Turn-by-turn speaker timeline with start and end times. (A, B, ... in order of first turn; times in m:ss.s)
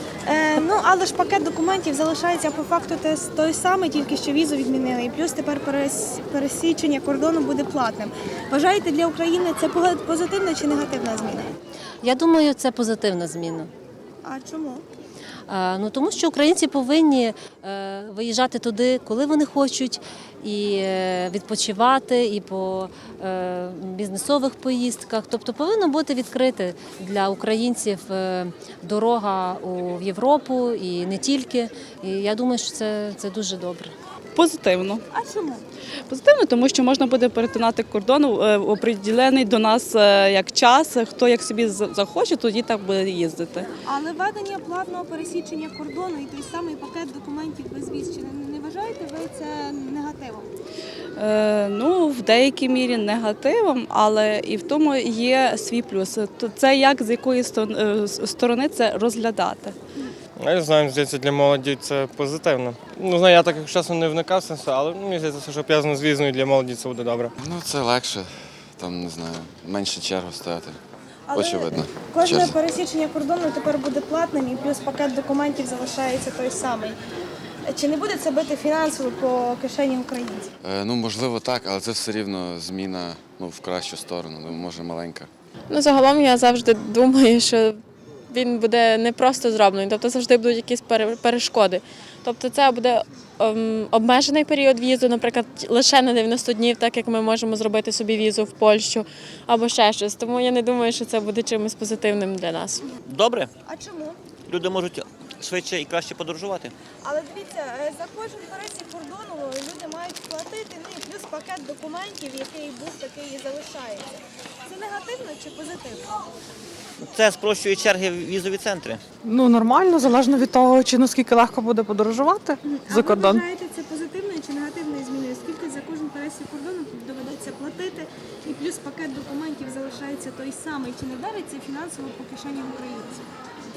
0:00.3-0:11.5 A
0:12.0-0:13.7 B
0:14.2-0:14.8 A
0:15.5-0:33.9 B
0:34.4-0:35.0 C
0:35.1-0:35.6 A
0:36.1-0:43.7 C
0:43.8-0:50.5 A
0:51.2-0:59.8 C
1:00.4-1:07.3 D
1:07.4-1:10.8 E
1:11.3-1:17.0 A
1:11.3-1:12.5 E
1:17.7-1:20.5 A
1:20.6-1:25.3 E
1:25.7-1:27.8 F
1:28.3-1:42.8 F
1:43.0-1:43.5 G
1:43.6-1:44.2 A
1:44.5-1:46.7 G
1:47.0-1:54.1 A
1:54.6-1:56.1 A
1:57.0-1:59.0 G
1:59.3-2:03.4 H
2:02.6-2:13.2 A